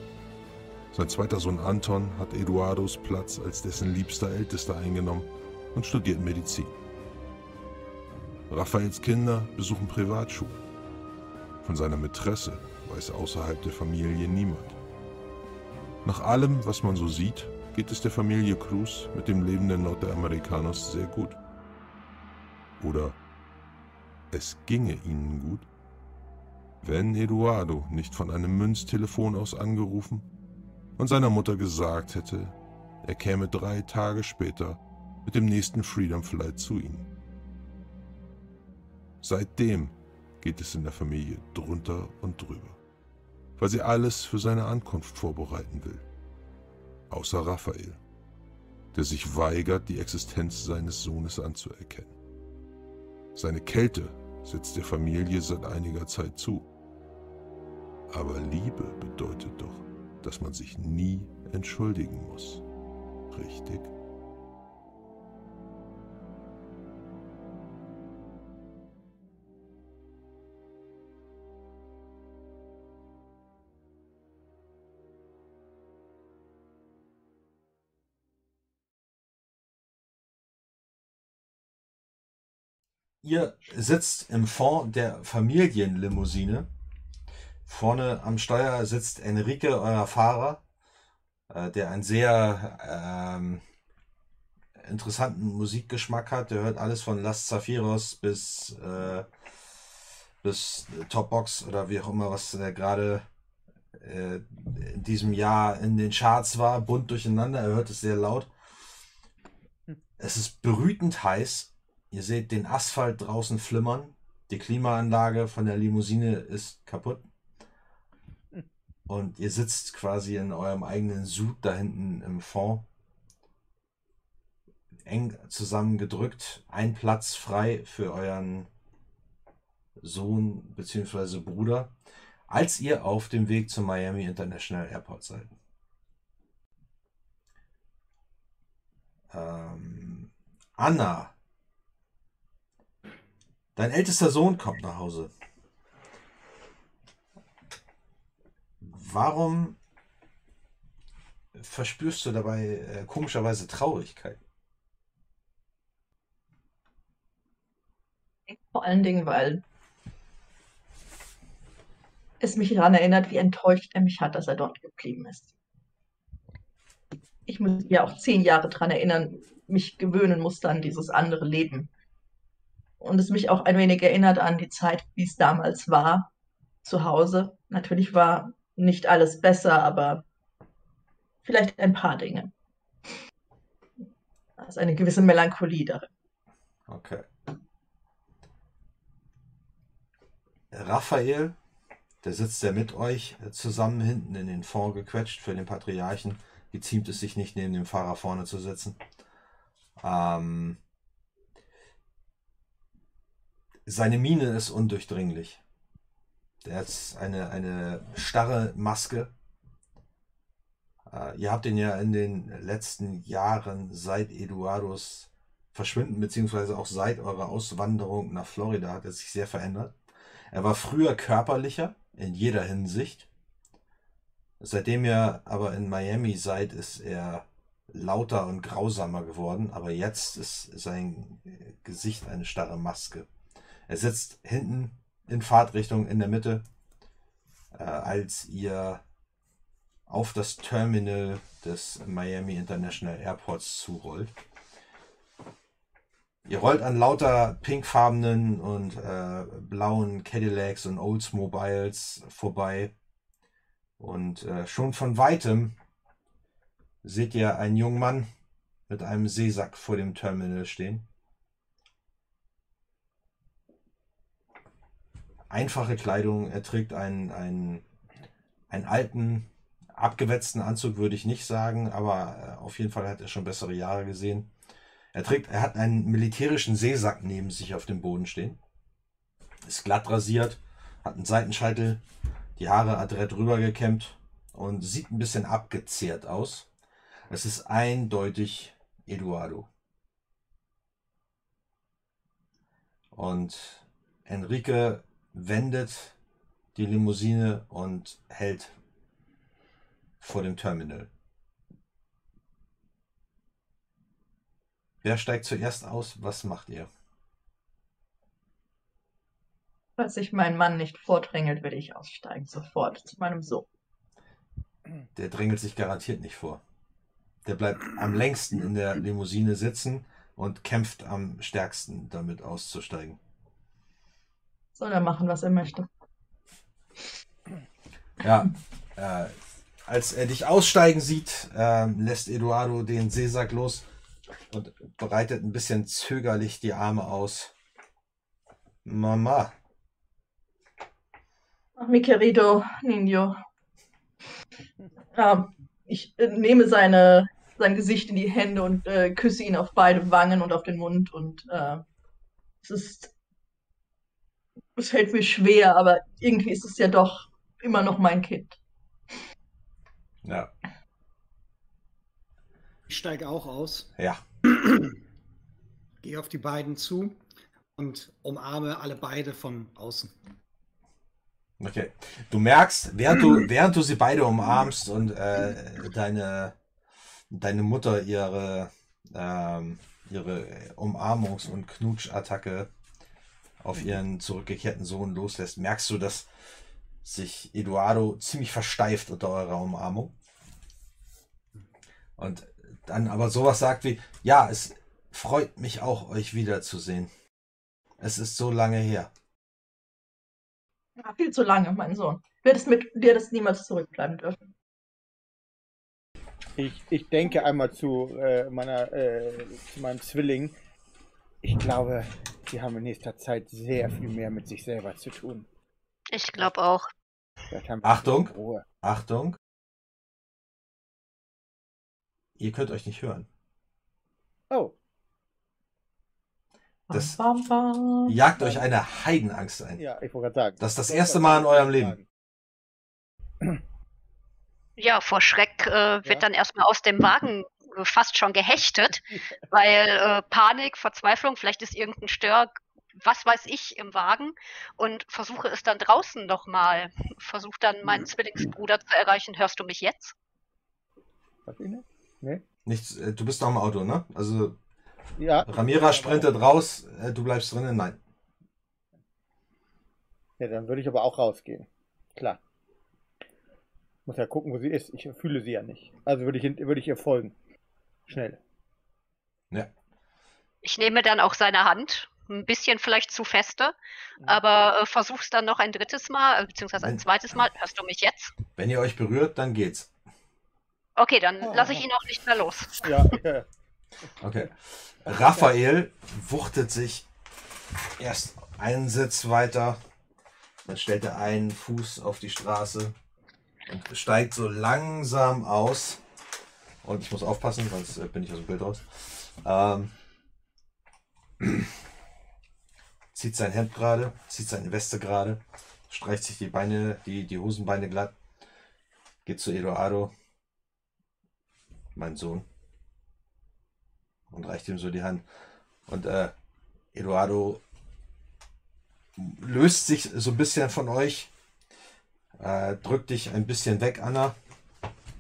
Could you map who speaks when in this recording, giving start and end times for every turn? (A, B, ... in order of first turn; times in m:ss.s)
0:00.9-0:06.8 A
0:08.5-0:10.6 A
0:11.6-0:14.8 A
0:16.0-0:21.4 A
0:22.8-0:23.2 A
0:24.3-0:25.7 A
0:26.8-0:30.3 A
0:31.0-0:37.1 A
0:39.2-0:42.8 A
0:43.6-0:46.1 A
0:47.1-0:48.0 A
0:48.9-0:52.2 A
0:53.4-0:56.7 A
0:58.1-1:02.6 A
1:03.3-1:03.9 A
1:23.2-1:26.7 B
1:27.7-1:30.6 B
1:31.5-1:33.6 B
1:34.8-1:39.3 B
1:40.4-1:43.3 B
1:44.0-1:48.5 B
1:50.2-1:57.2 B
1:59.1-2:02.9 B
2:05.0-2:08.7 B
2:10.0-2:11.9 B
2:12.5-2:15.5 B
2:19.3-2:21.3 B
2:23.8-2:25.3 B
2:28.8-2:29.8 B
2:31.6-2:34.4 B
2:38.5-2:39.6 C
2:42.4-2:45.5 C
2:47.5-2:51.9 C
2:53.0-2:56.3 C
2:56.8-3:00.2 C
3:01.4-3:02.5 C
3:04.6-3:06.1 C
3:06.9-3:07.3 B
3:10.7-3:11.6 B
3:12.2-3:19.0 B
3:20.0-3:20.8 B
3:23.9-3:25.6 B
3:26.6-3:29.3 B
3:31.1-3:40.0 B
3:40.5-3:43.3 B
3:44.6-3:53.3 B
3:53.9-3:56.6 B
3:57.7-3:59.0 B
4:00.1-4:04.3 B
4:06.5-4:12.9 B
4:14.0-4:15.8 B
4:17.0-4:18.3 B
4:18.9-4:21.0 B
4:25.5-4:27.8 B
4:28.7-4:34.5 B
4:35.1-4:38.6 B
4:39.6-4:42.0 B
4:42.6-4:46.7 B
4:47.3-4:49.7 B
4:53.1-4:56.2 B
4:56.8-4:58.7 B
5:00.2-5:01.1 B
5:05.0-5:06.9 B
5:10.0-5:13.7 C
5:15.2-5:16.6 B
5:17.4-5:23.2 B
5:24.8-5:25.9 C
5:28.2-5:29.4 B
5:29.9-5:33.9 B
5:34.5-5:37.5 B
5:38.8-5:39.5 B
5:41.8-5:43.4 C
5:45.2-5:51.8 C
5:52.6-5:53.1 C
5:54.8-5:58.6 C
6:00.2-6:00.5 B
6:02.9-6:03.9 D
6:04.0-6:04.2 B
6:04.6-6:04.9 D
6:06.0-6:07.2 D
6:07.8-6:10.2 D
6:11.6-6:16.6 B
6:17.3-6:22.7 B
6:23.6-6:26.3 B
6:27.0-6:30.1 B
6:32.2-6:37.1 B
6:38.0-6:39.1 B
6:41.0-6:44.4 C
6:46.6-6:50.6 E
6:51.4-6:55.5 E
6:56.1-6:56.9 F
6:57.5-6:58.6 E
6:57.8-6:59.4 B
7:02.4-7:03.3 B
7:04.5-7:04.8 E
7:06.9-7:08.2 C
7:06.9-7:07.2 B
7:08.1-7:09.8 B
7:08.4-7:08.7 E
7:09.8-7:12.1 E
7:10.6-7:12.0 B
7:14.8-7:30.1 F
7:31.5-7:32.4 E
7:32.7-7:34.6 B
7:35.2-7:36.3 E
7:35.5-7:38.0 B
7:40.4-7:42.4 E
7:44.1-7:47.4 E
7:48.1-7:48.4 E
7:50.6-7:58.4 F
7:58.6-7:59.9 B
8:01.0-8:03.2 F
8:01.4-8:01.8 E
8:02.8-8:03.5 E
8:04.2-8:07.1 B
8:05.1-8:05.5 E
8:08.0-8:09.8 B
8:10.6-8:13.0 B
8:13.7-8:16.0 B
8:16.8-8:19.9 B
8:21.4-8:21.7 B
8:23.1-8:28.1 B
8:29.3-8:30.1 B
8:32.0-8:32.5 B
8:34.3-8:35.2 B
8:35.9-8:36.3 B
8:36.9-8:37.6 B
8:39.2-8:41.3 B
8:42.4-8:44.4 B